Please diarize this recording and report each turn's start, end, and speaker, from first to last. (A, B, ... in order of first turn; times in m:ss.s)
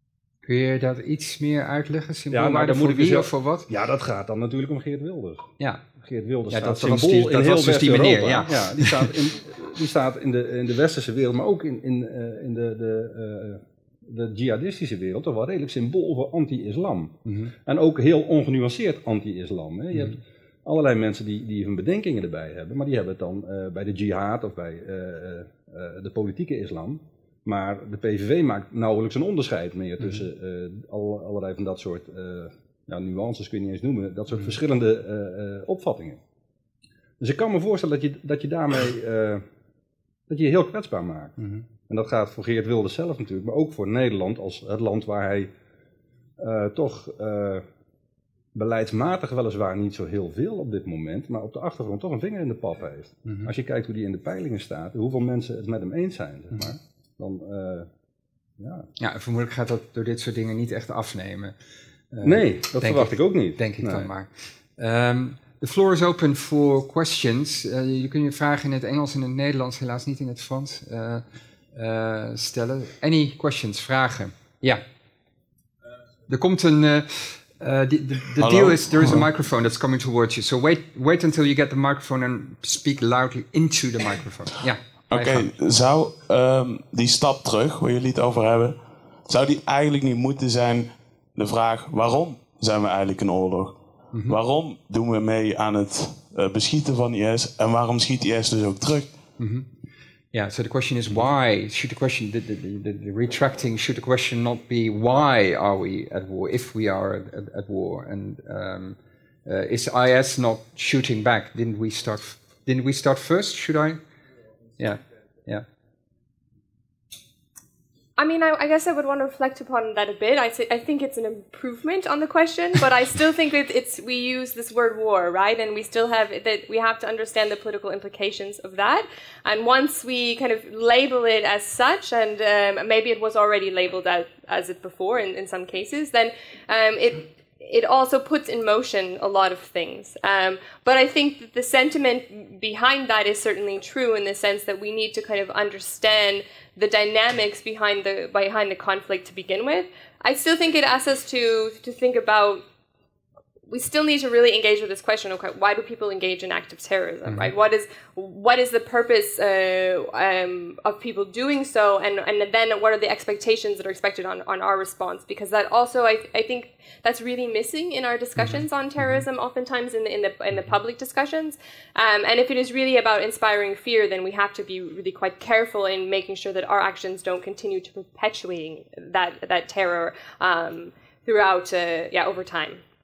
0:00.4-0:03.7 A
0:02.3-0:05.5 B
0:06.0-0:17.1 B
0:06.5-0:09.1 A
0:17.3-0:17.5 A
0:17.7-0:36.2 B
0:19.9-0:20.2 A
0:30.0-0:30.2 A
0:37.2-0:39.4 B
0:40.3-0:41.4 B
0:41.9-0:45.5 B
0:46.4-0:47.6 B
0:48.6-0:57.9 B
0:53.3-0:53.5 A
0:58.6-0:58.9 B
0:59.0-1:01.6 A
1:02.1-1:14.8 A
1:02.2-1:04.1 B
1:16.3-1:25.5 A
1:18.4-1:19.3 C
1:25.1-1:39.1 C
1:39.4-1:39.7 A
1:40.3-1:54.0 A
1:54.8-1:55.6 A
1:58.2-2:32.6 D
2:33.7-3:02.8 D
2:37.3-2:37.5 A
2:48.4-2:49.2 A